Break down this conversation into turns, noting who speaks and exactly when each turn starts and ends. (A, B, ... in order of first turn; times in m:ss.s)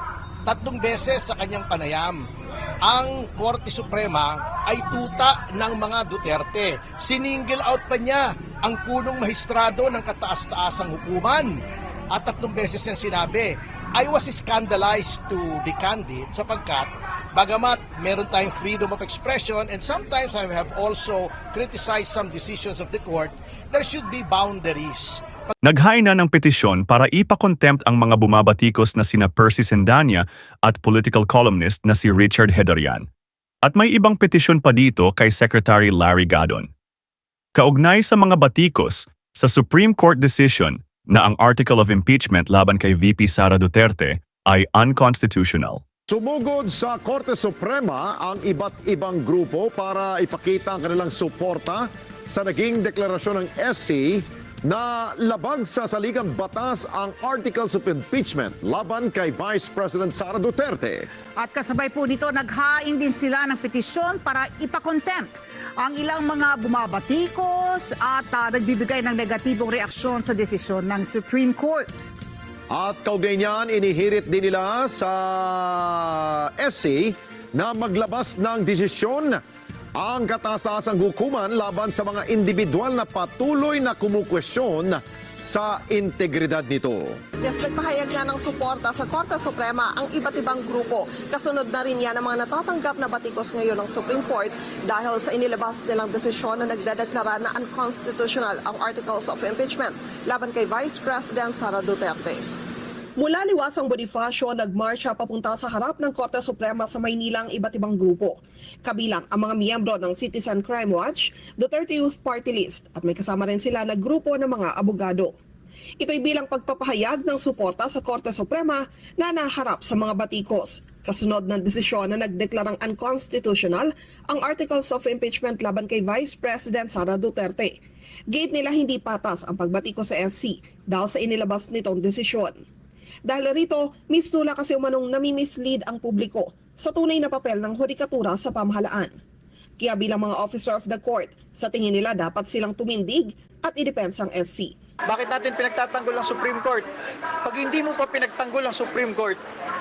0:00.4-0:02.2 A
0:02.8-0:25.5 A
0:25.6-0:33.1 B
0:33.6-0:36.7 B
0:37.6-0:45.8 B
0:46.1-1:01.1 C
1:01.4-1:12.1 D
1:12.7-1:19.4 C
1:20.0-1:27.2 C
1:27.4-1:42.4 E
1:43.2-1:55.3 E
1:56.0-2:07.8 E
2:08.3-2:12.6 E
2:13.2-2:19.1 E
2:19.8-2:24.7 E
2:25.1-2:26.8 F
2:27.4-2:29.4 F